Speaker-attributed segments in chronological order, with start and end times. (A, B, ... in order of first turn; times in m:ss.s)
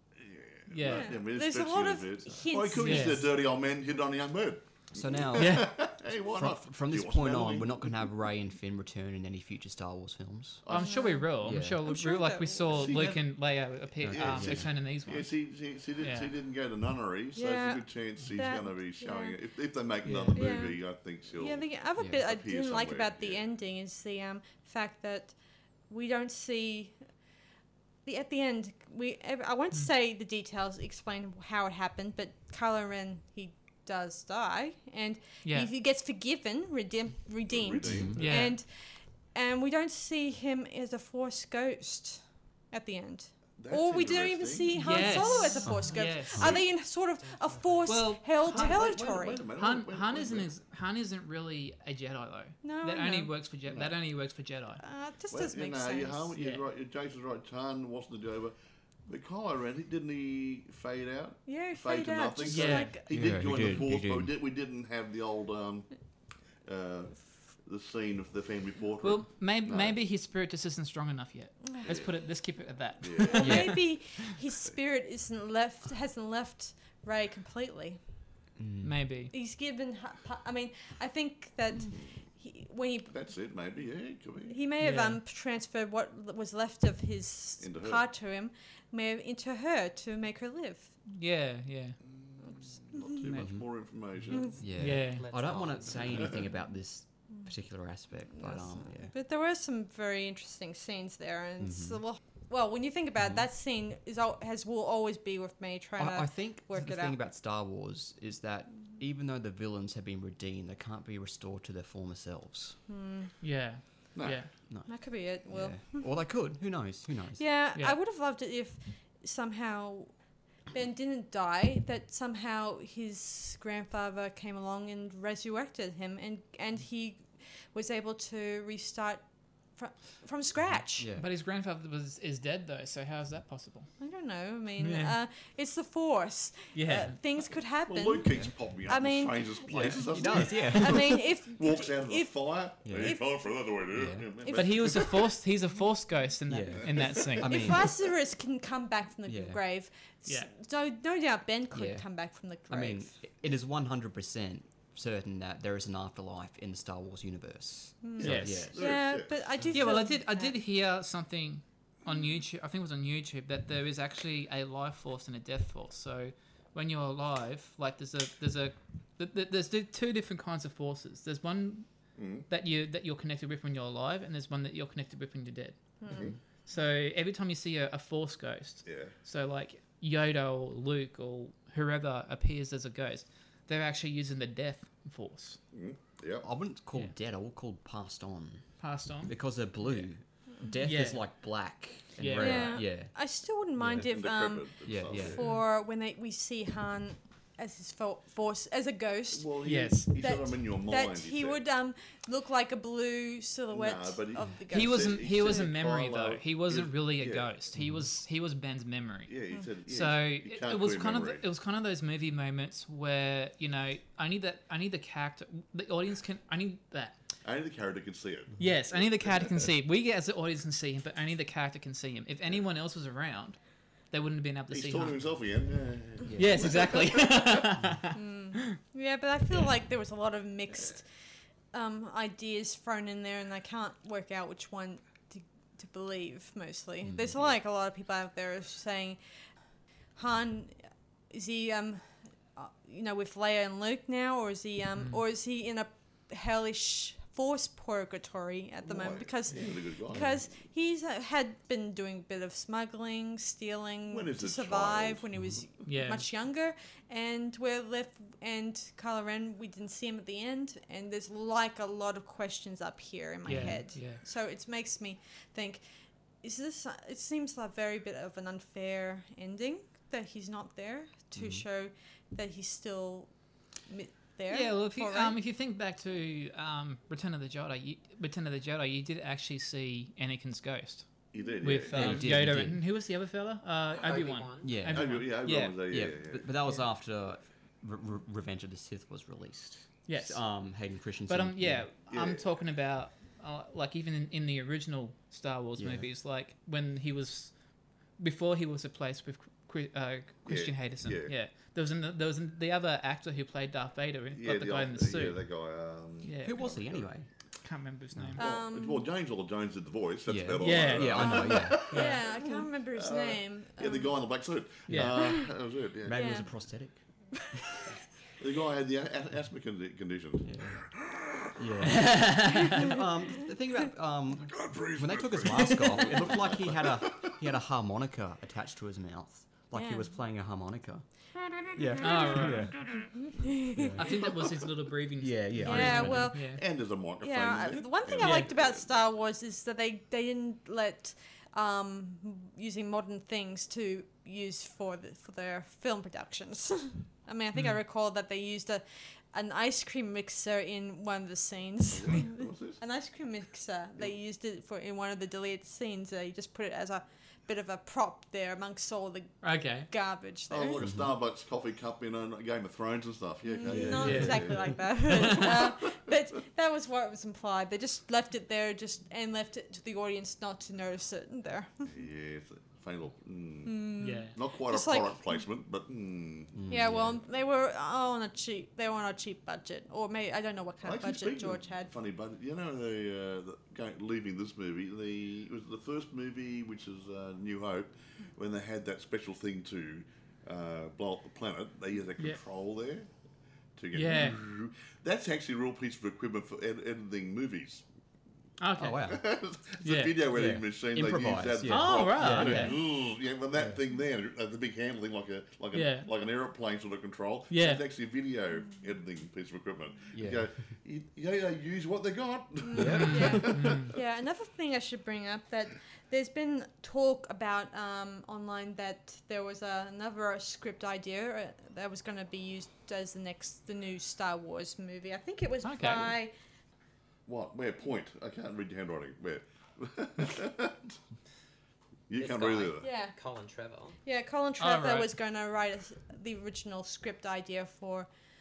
0:00.2-0:08.0 A
0:00.7-0:01.2 B
0:00.9-0:03.3 C
0:02.8-0:03.3 B
0:04.9-0:10.6 D
0:05.3-0:05.7 B
0:10.6-0:11.0 A
0:10.7-0:15.4 B
0:10.7-0:13.0 C
0:11.4-0:11.8 D
0:12.7-0:13.3 A
0:14.0-0:14.7 D
0:14.0-0:23.5 A
0:16.0-0:16.3 B
0:17.4-0:19.4 C
0:20.0-0:20.7 B
0:20.3-0:25.4 C
0:25.9-0:27.2 C
0:28.0-0:49.4 C
0:35.4-0:35.7 B
0:37.5-0:38.3 A
0:37.8-0:38.2 D
0:38.2-0:38.6 B
0:43.6-0:45.6 A
0:44.8-0:46.6 B
0:45.6-0:46.6 D
0:46.4-0:46.7 A
0:47.2-0:47.9 E
0:47.9-0:49.0 B
0:48.4-0:50.5 A
0:49.5-0:54.8 B
0:52.6-0:53.3 C
0:54.8-0:56.3 C
0:55.3-0:58.5 A
0:56.4-0:56.7 B
0:59.1-1:06.0 A
1:01.5-1:03.3 C
1:02.4-1:02.9 B
1:03.1-1:04.3 D
1:06.6-1:10.0 A
1:09.0-1:14.1 B
1:11.7-1:12.0 C
1:13.0-1:13.8 A
1:13.3-1:18.0 C
1:13.4-1:13.8 D
1:18.6-1:19.0 D
1:18.8-1:19.3 B
1:19.3-1:23.1 C
1:23.1-1:24.6 A
1:24.5-1:30.9 C
1:24.8-1:25.2 B
1:27.6-1:28.0 A
1:31.1-1:32.0 B
1:32.3-1:34.7 A
1:33.2-1:33.5 B
1:33.4-1:33.7 D
1:34.3-1:39.1 D
1:34.8-1:35.2 B
1:35.1-1:36.2 E
1:38.4-1:47.2 C
1:41.6-1:42.0 D
1:46.0-1:52.8 D
1:52.9-1:53.3 C
1:53.4-1:54.5 B
1:54.2-1:54.4 A
1:54.7-1:57.4 D
1:54.9-1:56.1 C
1:57.4-2:00.1 C
2:00.7-2:11.1 C
2:10.7-2:11.3 D
2:11.2-2:13.9 B
2:14.0-2:23.2 C
2:14.8-2:15.1 B
2:16.7-2:17.2 B
2:17.9-2:25.3 A
2:19.7-2:21.2 D
2:22.8-2:23.2 D
2:23.9-2:24.3 D
2:24.4-2:25.1 C
2:24.5-2:27.8 B
2:26.5-2:27.9 D
2:27.4-2:33.2 C
2:29.3-2:29.6 D
2:30.2-2:30.5 B
2:31.7-2:39.0 D
2:38.0-2:40.6 C
2:38.2-2:39.4 A
2:38.2-2:38.7 B
2:39.7-2:55.8 B
2:52.2-2:52.5 A
2:56.0-2:56.3 C
2:56.1-2:56.4 A
2:56.6-3:05.6 B
2:58.9-2:59.1 A
3:05.7-3:06.5 A
3:06.4-3:14.1 D
3:08.8-3:10.1 B
3:10.8-3:11.6 B
3:12.2-3:12.9 B
3:12.4-3:19.5 C
3:14.0-3:15.4 A
3:14.8-3:15.4 D
3:19.3-3:21.6 A
3:19.6-3:20.1 B
3:20.1-3:25.1 C
3:23.7-3:27.5 A
3:24.7-3:29.4 B
3:27.8-3:28.1 D
3:29.3-3:31.4 A
3:29.9-3:37.2 B
3:37.4-3:39.5 A
3:38.6-3:45.2 B
3:44.7-3:47.7 A
3:46.2-3:46.7 D
3:46.4-3:48.8 B
3:48.1-3:51.1 C
3:51.7-3:59.2 C
3:57.0-3:57.4 D
4:00.1-4:25.8 C
4:08.9-4:10.4 A
4:14.1-4:15.3 A
4:15.4-4:15.6 D
4:15.9-4:16.3 B
4:23.4-4:23.8 D
4:23.5-4:24.2 B
4:26.4-4:35.4 C
4:31.4-4:31.6 D
4:34.5-4:41.1 B
4:41.3-4:42.4 A
4:41.6-4:45.8 B
4:41.9-4:42.8 D
4:44.0-4:44.9 E
4:44.6-4:51.9 D
4:44.9-4:46.6 A
4:50.1-4:50.4 B
4:51.3-4:57.6 B
4:52.1-4:52.4 A
4:55.8-4:56.1 D
4:58.2-5:05.4 B
5:00.5-5:01.3 A
5:04.3-5:07.1 A
5:06.2-5:06.8 B
5:06.4-5:07.3 D
5:07.6-5:08.4 B
5:08.4-5:12.3 A
5:08.4-5:09.1 C
5:10.3-5:11.9 D
5:10.6-5:12.4 B
5:11.9-5:14.1 C
5:13.0-5:16.4 A
5:14.9-5:15.2 B
5:15.1-5:15.5 C
5:16.0-5:17.0 D
5:16.1-5:16.5 C
5:18.4-5:21.6 A
5:20.4-5:20.9 D
5:21.5-5:31.1 D
5:21.8-5:22.8 B
5:24.5-5:27.4 A
5:25.6-5:26.0 B
5:29.7-5:30.1 C
5:31.6-5:32.8 D
5:32.0-5:32.8 B
5:32.0-5:32.3 C
5:33.1-5:34.1 C
5:33.8-5:34.0 D
5:34.0-5:36.6 B
5:35.2-5:36.3 D
5:35.6-6:00.8 C
5:35.7-5:38.9 A
5:38.2-5:38.5 B
5:47.5-5:47.8 B
5:51.9-5:52.8 A
5:59.4-5:59.9 B
6:00.5-6:05.9 A
6:00.8-6:01.2 D
6:03.4-6:11.9 C
6:03.6-6:04.8 D
6:04.0-6:04.4 B
6:05.1-6:05.6 B
6:11.9-6:16.6 A
6:13.6-6:15.4 C
6:14.0-6:14.3 B
6:16.5-6:17.2 D
6:16.7-6:21.9 C
6:20.8-6:33.1 A
6:33.8-6:37.8 A
6:33.9-6:34.4 B
6:38.6-6:39.2 B
6:38.8-6:39.3 D
6:39.1-6:54.0 A
6:39.8-6:40.2 B
6:40.3-6:42.8 D
6:41.6-6:42.8 B
6:43.6-6:43.8 D
6:45.7-6:46.1 B
6:47.5-6:47.8 B
6:50.1-6:50.5 D
6:52.6-7:06.3 C
6:52.7-6:53.6 D
6:52.9-6:53.9 B
7:05.6-7:06.0 B
7:07.3-7:11.0 A
7:12.1-7:12.9 A
7:12.2-7:14.0 E
7:12.8-7:13.2 C
7:14.0-7:18.1 C
7:14.6-7:15.1 B